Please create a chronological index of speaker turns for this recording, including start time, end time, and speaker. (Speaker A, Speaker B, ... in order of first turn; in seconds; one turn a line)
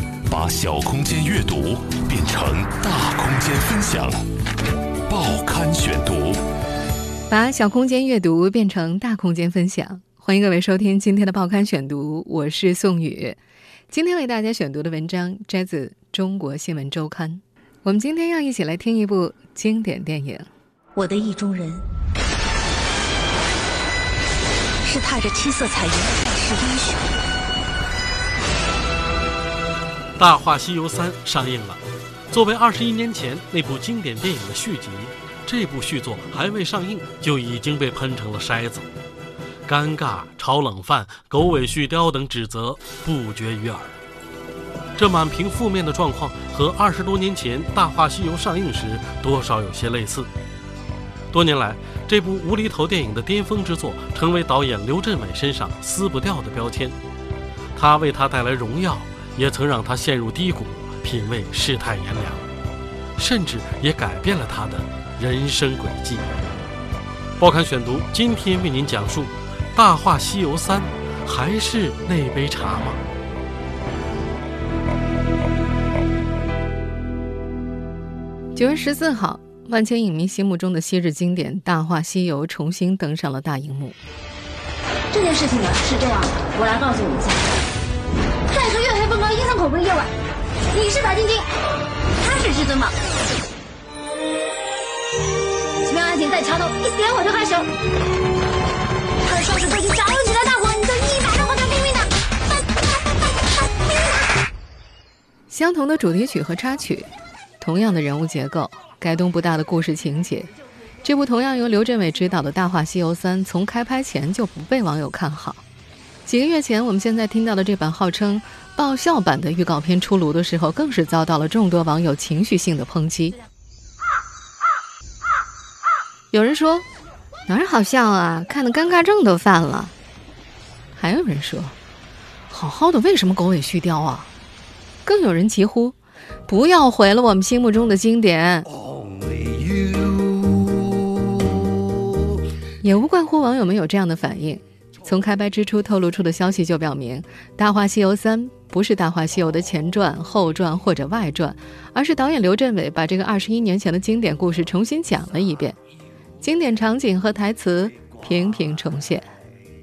Speaker A: 0.3-4.2
Speaker A: 5.1-6.4
Speaker B: 7.3-13.4
Speaker B: 13.9-20.5
Speaker C: 20.9-21.9
Speaker C: 24.9-27.1
Speaker D: 30.2-31.8
Speaker D: 32.3-38.9
Speaker D: 39.7-44.0
Speaker D: 45.0-50.3
Speaker D: 51.3-56.9
Speaker D: 57.8-62.4
Speaker D: 63.2-66.2
Speaker D: 67.4-73.0
Speaker B: 78.5-84.0
Speaker E: 85.1-87.5
Speaker E: 88.5-90.1
Speaker E: 90.7-91.5
Speaker E: 92.2-92.9
Speaker E: 95.9-97.7
Speaker E: 99.2-102.1
Speaker B: 105.5-110.5
Speaker B: 111.0-115.6
Speaker B: 116.3-123.4
Speaker B: 126.3-126.9
Speaker B: 127.5-129.9
Speaker B: 131.0-131.8
Speaker B: 132.5-134.3
Speaker B: 135.1-136.0
Speaker B: 136.5-138.7
Speaker B: 142.8-155.8
Speaker B: 156.4-159.3